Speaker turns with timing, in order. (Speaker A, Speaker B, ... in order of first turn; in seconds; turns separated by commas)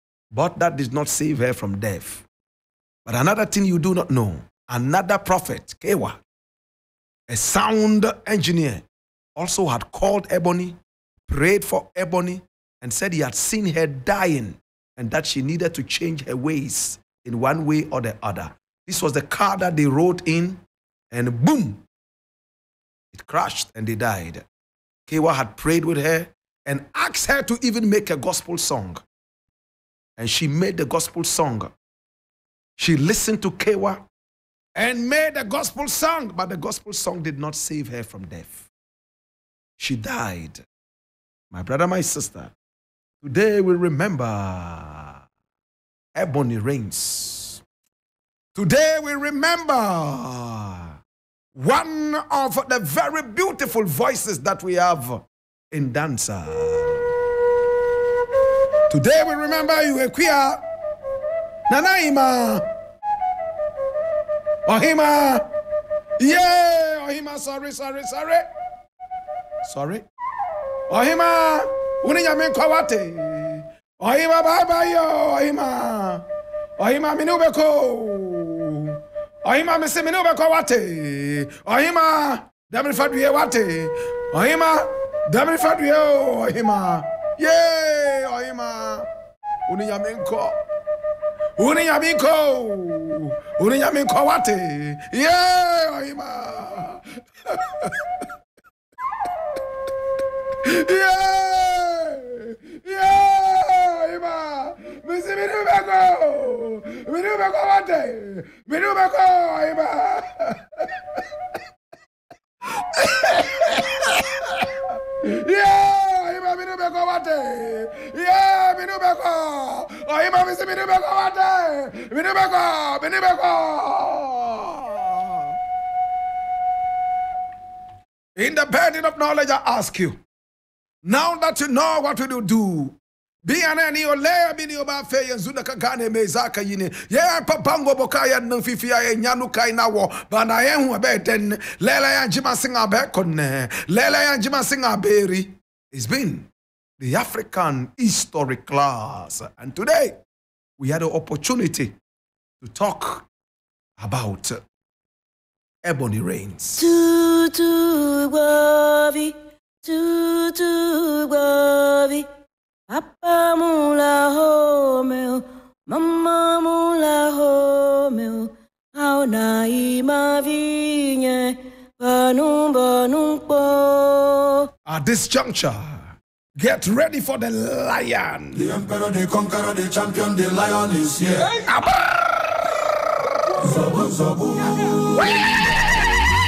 Speaker A: 0.3-2.2, Speaker A: 3.0-6.2, Speaker A: 7.3-8.8, Speaker A: 9.4-21.8, Speaker A: 23.1-24.4, Speaker A: 25.1-29.0, Speaker A: 30.2-31.7, Speaker A: 32.8-34.0, Speaker A: 34.8-38.7, Speaker A: 39.8-40.6, Speaker A: 41.5-42.5, Speaker A: 43.2-45.2, Speaker A: 46.1-47.6, Speaker A: 48.5-51.0, Speaker A: 51.5-57.1, Speaker A: 58.9-60.6, Speaker A: 61.7-62.6, Speaker A: 64.7-65.5, Speaker A: 66.2-68.5, Speaker A: 69.7-70.0, Speaker A: 70.9-76.2, Speaker A: 76.8-89.1, Speaker A: 89.7-90.6, Speaker A: 91.6-98.2, Speaker A: 100.7-110.9, Speaker A: 112.8-114.7, Speaker A: 115.2-125.5, Speaker A: 128.4-130.2, Speaker A: 131.0-146.5, Speaker A: 147.0-150.2, Speaker A: 150.8-152.0, Speaker A: 152.6-153.3, Speaker A: 154.0-154.6, Speaker A: 155.8-156.9, Speaker B: 156.8-162.3, Speaker B: 162.9-174.6, Speaker A: 174.9-178.6, Speaker C: 178.6-181.5, Speaker A: 181.5-182.4, Speaker C: 183.6-185.0, Speaker B: 183.7-183.9, Speaker A: 185.1-185.8